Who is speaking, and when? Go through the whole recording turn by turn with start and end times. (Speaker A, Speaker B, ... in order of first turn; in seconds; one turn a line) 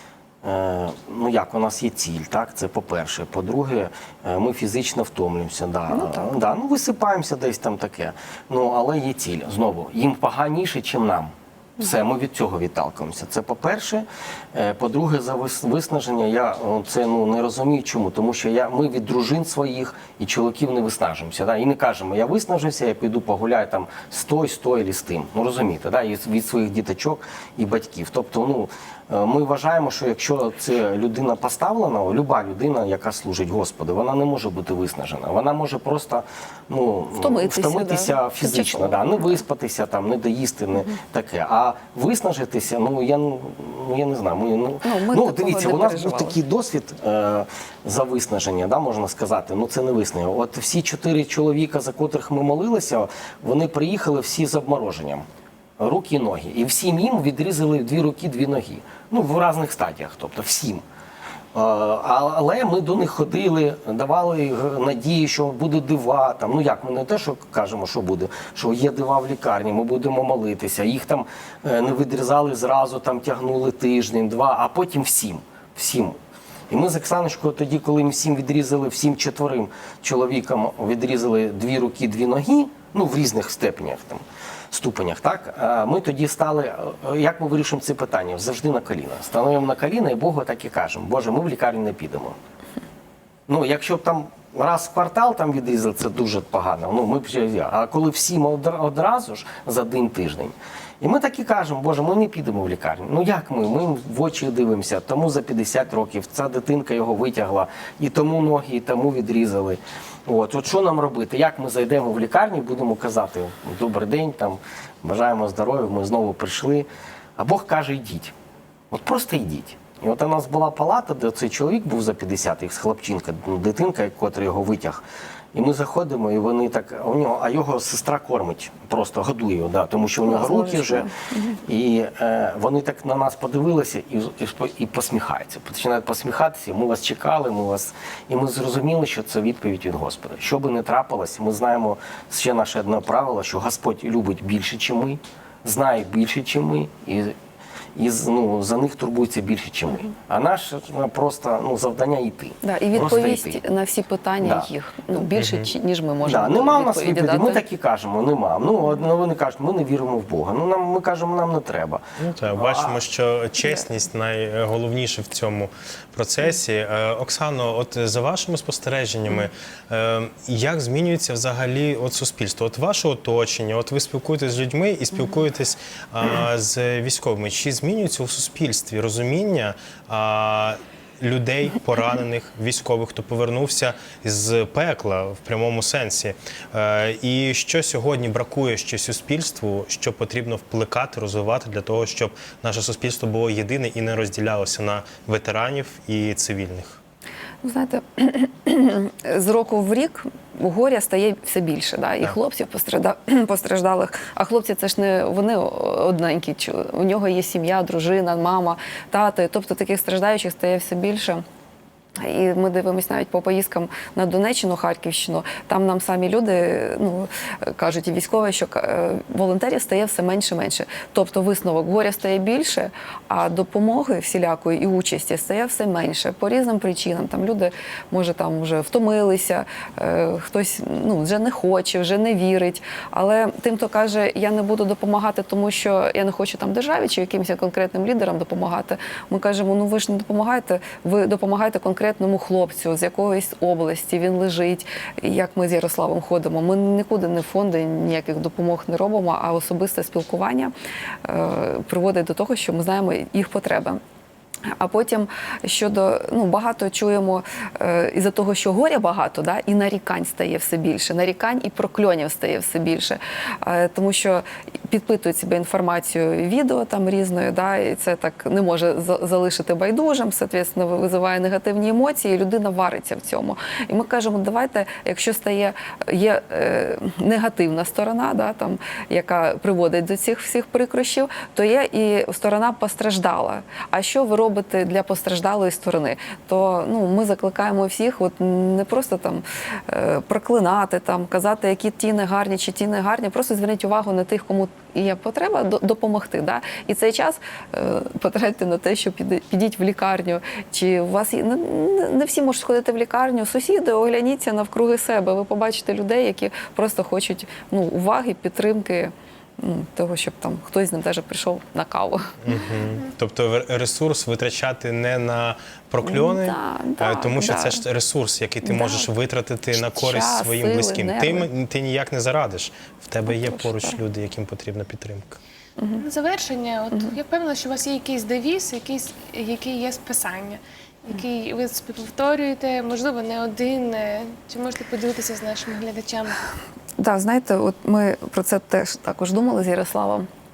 Speaker A: 0.4-55.2
Speaker B: 5.9-6.4
Speaker B: 37.2-39.0
Speaker B: 44.8-46.4
Speaker A: 55.8-60.8
Speaker A: 61.5-76.2
Speaker A: 76.7-92.3
Speaker A: 93.5-118.3
Speaker A: 118.9-125.0
Speaker A: 125.5-131.1
Speaker B: 130.2-131.6
Speaker A: 131.6-147.3
Speaker A: 147.9-153.6
Speaker B: 152.6-157.6
Speaker A: 154.4-154.7
Speaker C: 155.3-155.7
Speaker A: 156.2-163.0
Speaker C: 162.2-197.0
Speaker B: 197.6-211.4
Speaker B: 212.2-250.7
Speaker B: 251.2-254.0
Speaker B: 254.7-312.3
Speaker C: 312.4-325.4
Speaker B: 316.1-317.8
Speaker B: 318.6-319.1
Speaker B: 319.7-321.5
Speaker B: 323.3-323.9
Speaker D: 326.0-336.4
Speaker B: 337.0-340.3